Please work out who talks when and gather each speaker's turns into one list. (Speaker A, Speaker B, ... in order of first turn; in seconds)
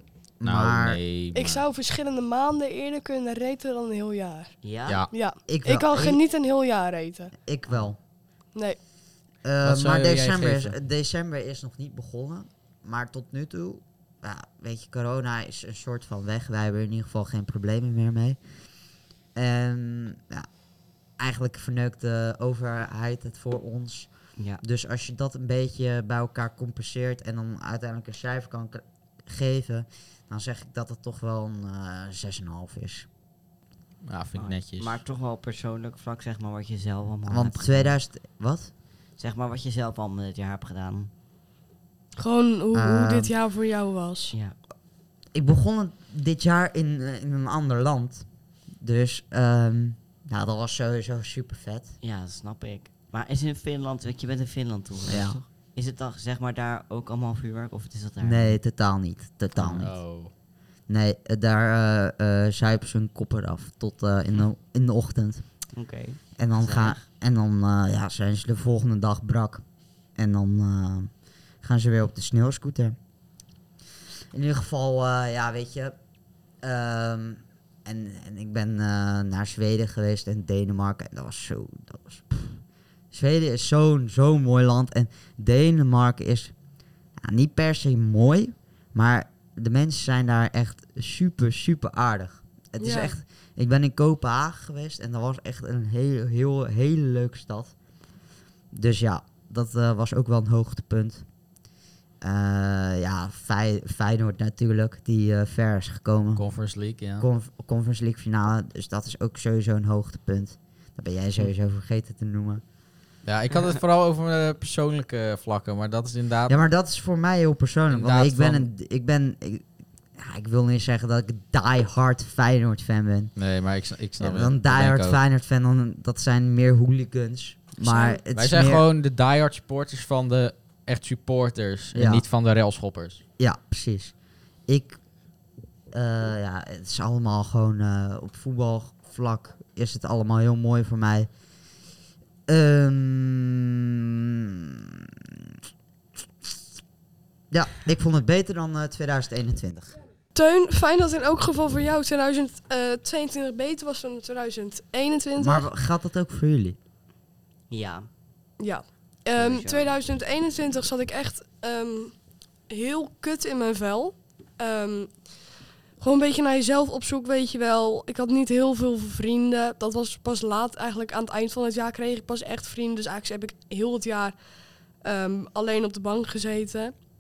Speaker A: 0.4-1.0, 5.5-6.2, 7.4-8.0, 9.4-18.4, 19.3-20.5, 21.2-33.1, 37.3-38.7, 42.7-43.3, 45.3-48.2, 48.8-51.9, 55.1-55.4, 58.2-60.0, 60.9-65.4, 66.4-69.6, 70.2-73.0, 74.3-76.0, 76.6-86.5, 87.2-97.7, 98.7-101.2, 102.2-106.4, 107.2-112.6, 116.5-119.6, 120.2-123.3, 124.2-128.8, 131.9-132.2, 133.4-134.1, 134.7-135.0, 135.9-141.3, 142.5-145.5, 147.5-150.0, 155.4-156.8
Speaker B: 0.4-1.6, 9.6-10.8, 34.0-35.0, 59.6-60.3, 106.3-107.3, 113.2-116.6, 117.9-118.7, 123.3-125.2, 128.3-133.2
Speaker C: 1.3-4.6, 5.1-7.3, 42.2-44.3, 92.8-93.2, 127.8-128.2, 150.3-155.7, 158.6-162.1, 162.7-165.1, 166.0-174.3, 175.0-176.9
Speaker D: 4.6-5.0, 34.4-38.0, 39.2-41.1, 52.0-58.6, 65.7-67.0, 157.7-158.1, 159.3-160.0